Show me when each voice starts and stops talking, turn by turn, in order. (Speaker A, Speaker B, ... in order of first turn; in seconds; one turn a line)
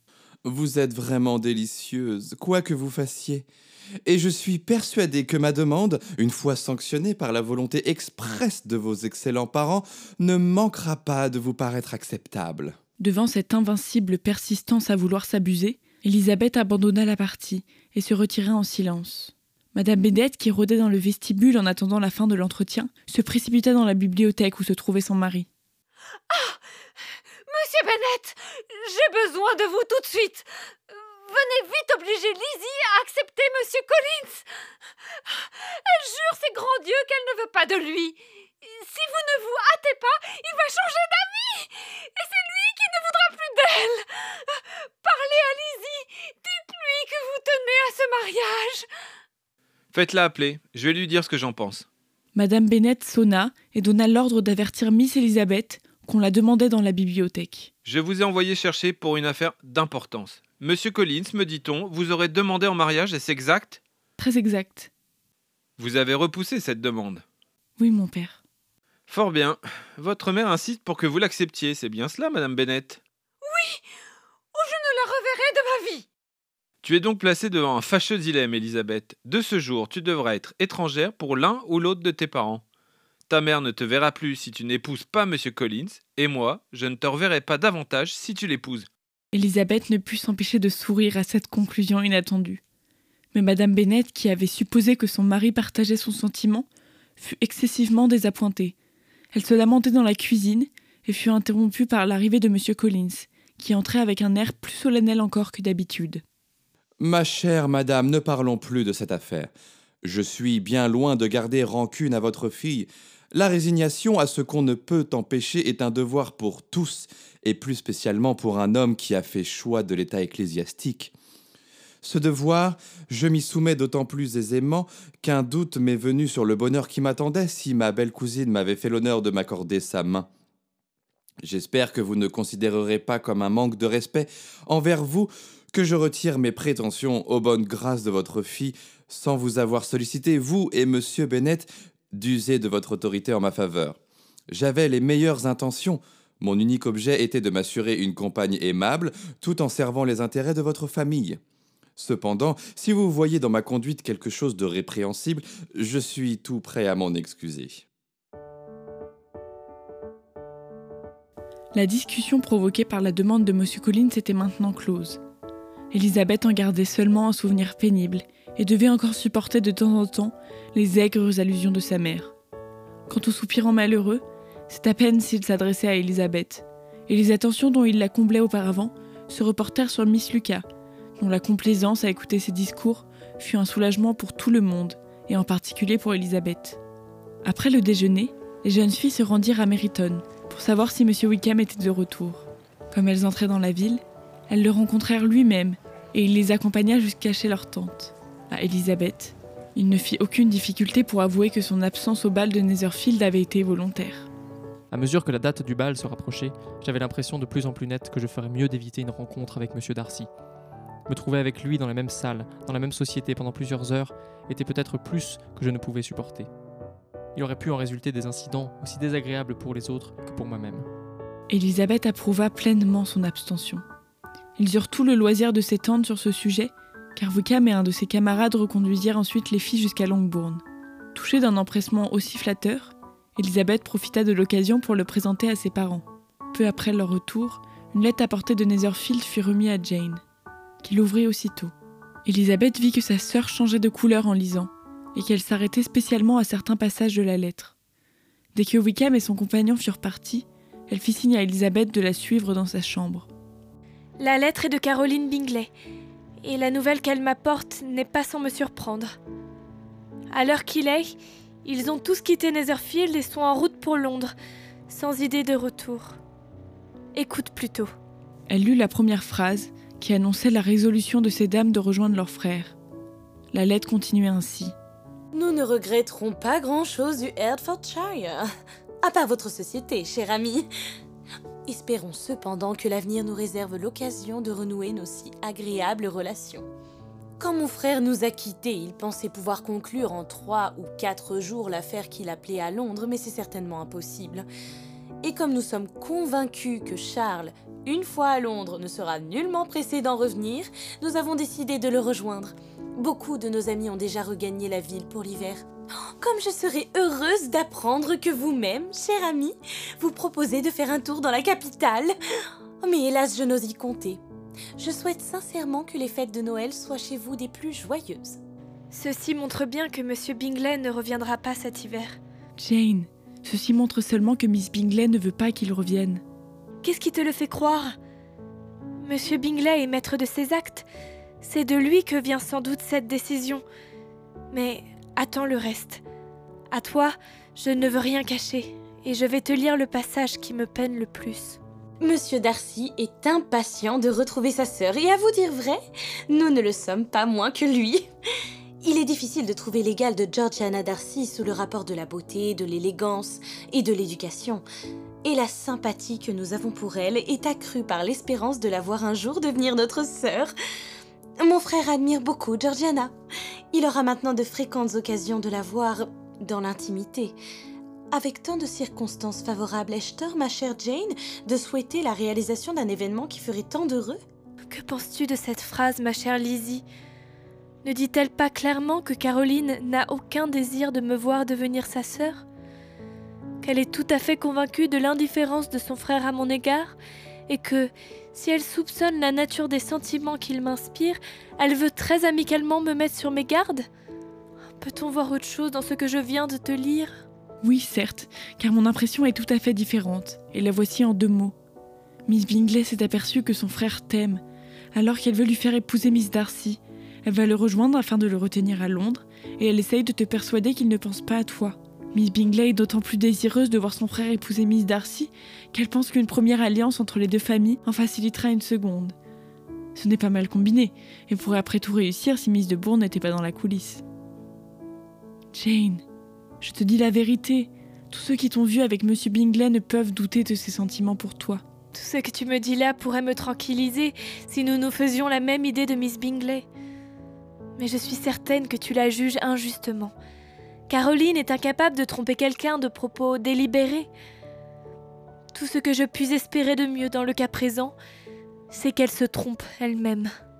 Speaker A: 0.4-3.5
Speaker A: 4.0-12.8
Speaker B: 13.0-25.5
Speaker C: 26.3-26.6
Speaker C: 27.5-34.4
Speaker C: 35.3-48.9
Speaker D: 49.9-51.9
Speaker B: 52.3-57.7
Speaker D: 57.8-63.8
Speaker B: 64.2-64.9
Speaker D: 65.8-67.2
Speaker B: 67.8-68.4
Speaker D: 69.1-73.0
Speaker C: 73.4-73.8
Speaker C: 74.5-76.1
Speaker D: 76.8-82.6
Speaker D: 83.3-88.9
Speaker B: 89.3-92.6
Speaker B: 93.3-96.7
Speaker B: 97.2-98.8
Speaker B: 99.3-106.2
Speaker A: 107.0-109.5
Speaker A: 110.0-121.1
Speaker A: 122.0-130.3
Speaker A: 131.4-144.0
Speaker A: 144.5-151.4
Speaker A: 152.0-157.8
Speaker B: 161.7-165.2
Speaker B: 165.9-172.3
Speaker B: 173.1-180.6
Speaker B: 181.2-186.8
Speaker B: 187.4-204.3
Speaker E: 204.9-210.3
Speaker E: 211.1-216.5
Speaker E: 217.3-220.9
Speaker B: 221.5-223.8
Speaker B: 224.6-230.6
Speaker B: 231.1-240.2
Speaker B: 240.8-241.7
Speaker B: 242.2-247.7
Speaker B: 248.5-253.3
Speaker F: 254.2-255.7
Speaker F: 256.4-259.1
Speaker F: 260.3-261.1
Speaker F: 261.6-264.3
Speaker F: 264.9-266.2
Speaker F: 267.1-267.9
Speaker B: 268.5-272.8
Speaker B: 273.5-274.7
Speaker G: 275.3-278.5
Speaker G: 279.0-280.6
Speaker G: 281.6-286.7
Speaker G: 287.4-294.4
Speaker G: 295.2-305.6
Speaker G: 306.2-312.1
Speaker G: 312.8-314.2
Speaker G: 314.8-318.4
Speaker F: 318.9-322.2
Speaker B: 322.6-326.2
Speaker F: 326.8-327.9
Speaker F: 329.0-330.9
Speaker F: 331.4-333.6
Speaker F: 334.5-336.0
Speaker F: 336.7-341.6
Speaker G: 342.0-348.1
Speaker G: 348.8-354.6
Speaker G: 355.2-360.5
Speaker G: 361.4-363.1
Speaker G: 363.7-367.4
Speaker G: 368.1-374.2
Speaker F: 374.7-376.8
Speaker F: 377.8-382.4
Speaker F: 383.6-386.9
Speaker F: 387.5-393.9
Speaker F: 394.8-397.2
Speaker B: 397.6-401.5
Speaker B: 402.3-404.4
Speaker B: 404.9-419.1
Speaker B: 419.9-424.0
Speaker B: 425.5-426.0
Speaker B: 426.6-431.6
Speaker F: 431.9-436.6
Speaker F: 437.8-440.1
Speaker F: 440.9-444.1
Speaker F: 445.5-447.9
Speaker F: 448.7-450.3